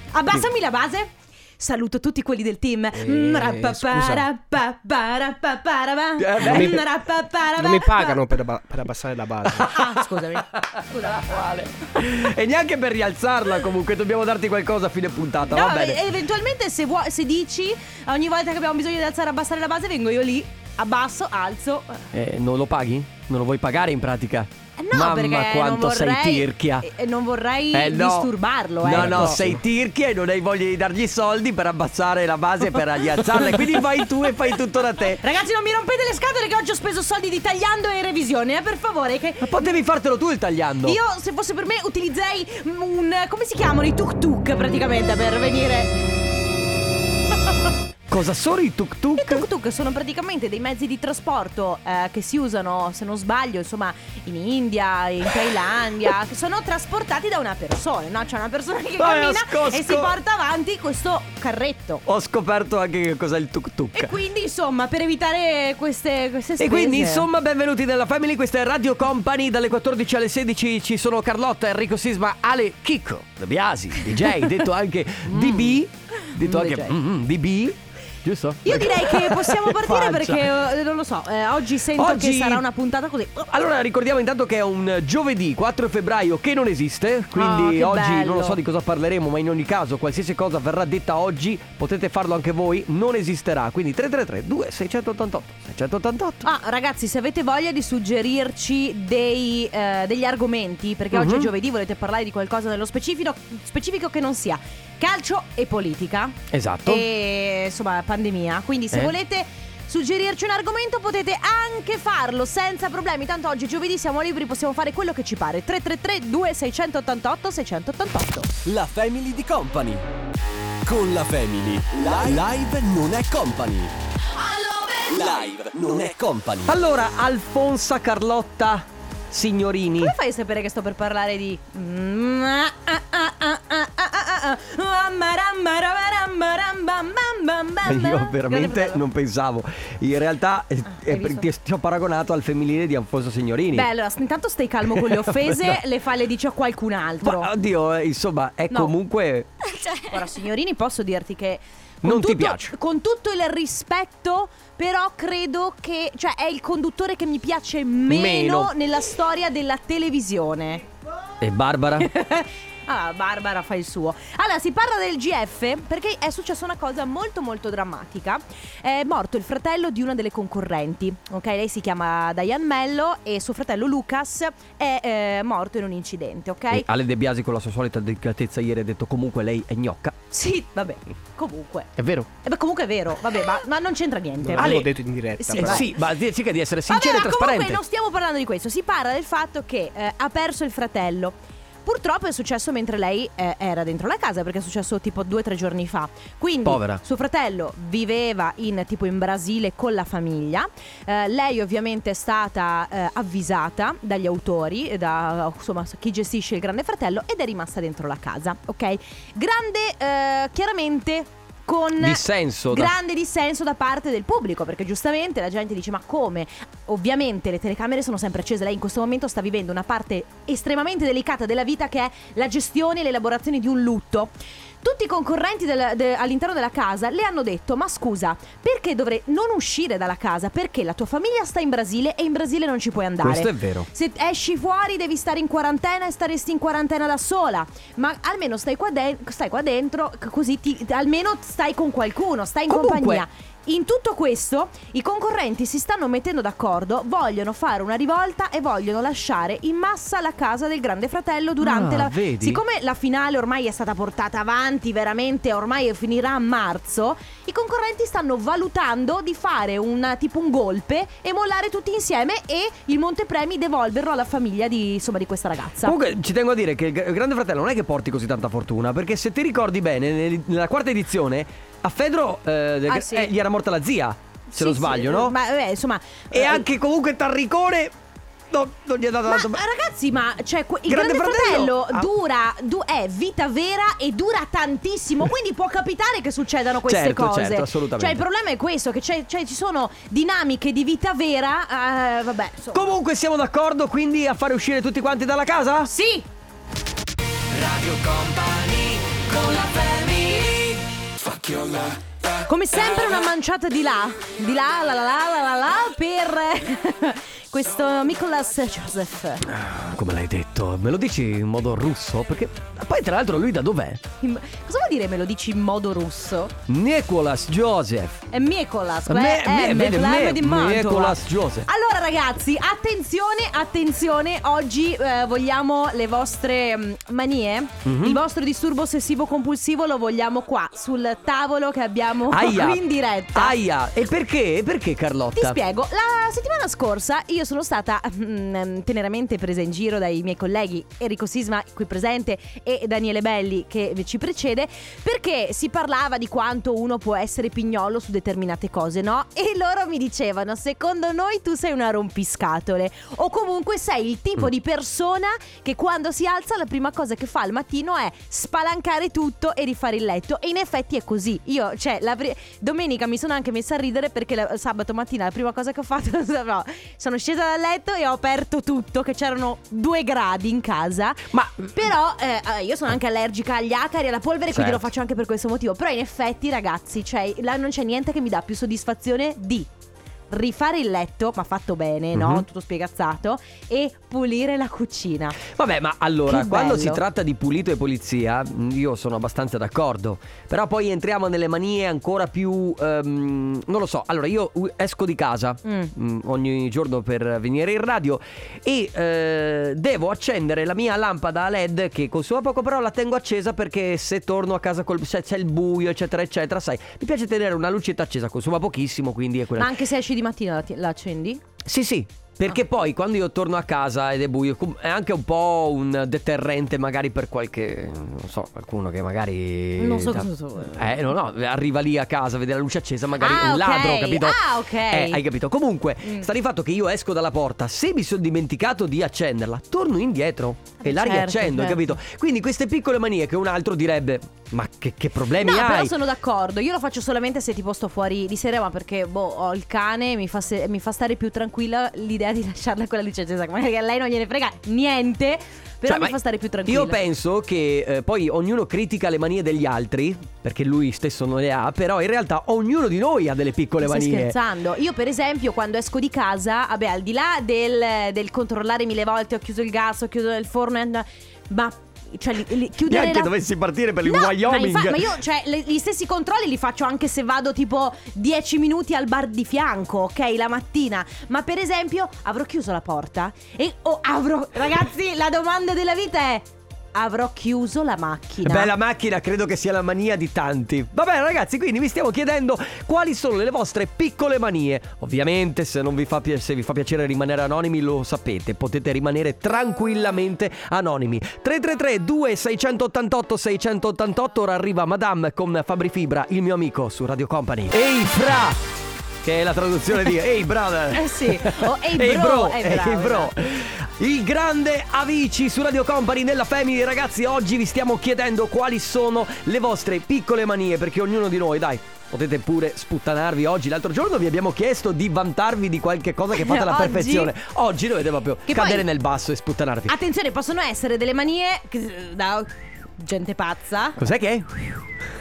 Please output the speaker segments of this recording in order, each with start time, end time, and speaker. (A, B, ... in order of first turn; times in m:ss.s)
0:00.1-0:08.2 A
0:02.9-0:04.3 B
0:06.2-0:06.8 C
0:06.4-0:06.8 B
0:07.5-0:09.7 B
0:09.5-0:16.0 C
0:09.6-0:11.4 A
0:15.5-0:22.0 A
0:22.1-0:26.9 C
0:24.8-0:29.5 A
0:27.7-0:28.3 C
0:28.8-0:35.2 C
0:28.9-0:29.5 B
0:33.5-0:33.8 A
0:35.2-0:39.5 A
0:39.4-0:41.0 C
0:40.8-0:45.9 A
0:48.1-0:49.4 C
0:49.2-1:02.0 A
0:59.0-1:00.1 C
1:02.0-1:04.1 C
1:03.9-1:07.3 A
1:06.6-1:20.5 C
1:15.3-1:17.0 A
1:18.6-1:23.4 A
1:21.9-1:22.6 C
1:23.4-1:36.4 C
1:27.3-1:28.6 A
1:36.4-1:58.5 A
1:41.1-1:41.5 C
1:46.5-1:47.0 C
1:58.6-2:00.0 D
2:00.8-2:03.9 D
2:02.0-2:02.4 C
2:05.1-2:06.7 D
2:06.6-2:10.1 C
2:10.0-2:19.0 A
2:17.8-2:23.9 C
2:20.9-2:21.4 A
2:23.7-2:27.5 A
2:24.9-2:25.8 C
2:27.2-2:29.5 C
2:30.0-2:40.8 A
2:32.0-2:32.8 C
2:38.1-2:38.7 C
2:41.4-2:42.1 C
2:42.0-2:56.8 A
2:56.7-3:00.1 C
3:00.3-3:01.9 A
3:02.0-3:02.3 C
3:02.4-3:06.0 A
3:04.4-3:05.9 B
3:04.6-3:04.9 C
3:05.5-3:07.8 C
3:06.9-3:44.3 A
3:16.6-3:17.0 C
3:32.0-3:32.9 C
3:44.8-4:26.0 A
3:53.2-3:53.9 C
4:02.7-4:03.2 C
4:11.6-4:12.6 C
4:25.8-4:35.3 C
4:32.9-4:33.3 A
4:34.5-4:36.6 A
4:36.3-4:37.9 C
4:38.5-4:39.6 C
4:39.3-4:52.9 A
4:40.9-4:42.1 C
4:46.9-4:48.2 C
4:52.7-4:55.9 C
4:55.9-4:56.2 A
4:57.5-5:02.0 C
5:02.5-5:09.4 A
5:09.4-5:14.0 C
5:14.2-5:16.5 A
5:16.7-5:18.2 C
5:18.3-5:33.5 A
5:19.1-5:21.6 C
5:27.8-5:28.2 C
5:32.3-5:32.8 C
5:33.3-5:35.6 C
5:35.4-6:19.7 A
6:11.3-6:11.7 C
6:14.5-6:14.8 C
6:20.3-6:25.4 A
6:22.1-6:22.4 C
6:25.5-6:49.7 C
6:26.3-6:27.0 A
6:35.6-6:35.9 A
6:49.6-6:51.4 A
6:51.6-7:15.9 C
6:59.8-7:01.1 A
7:03.2-7:05.2 A
7:10.8-7:12.0 A
7:15.4-7:27.0 A
7:25.8-7:26.1 C
7:26.6-7:34.4 C
7:33.8-7:43.3 A
7:42.8-7:45.2 C
7:44.0-7:58.7 A
7:58.4-8:18.6 C
8:19.2-8:40.0 C
8:20.9-8:23.3 A
8:36.3-8:37.3 A
8:38.5-8:38.8 A
8:39.9-8:44.0 A
8:44.0-8:44.9 C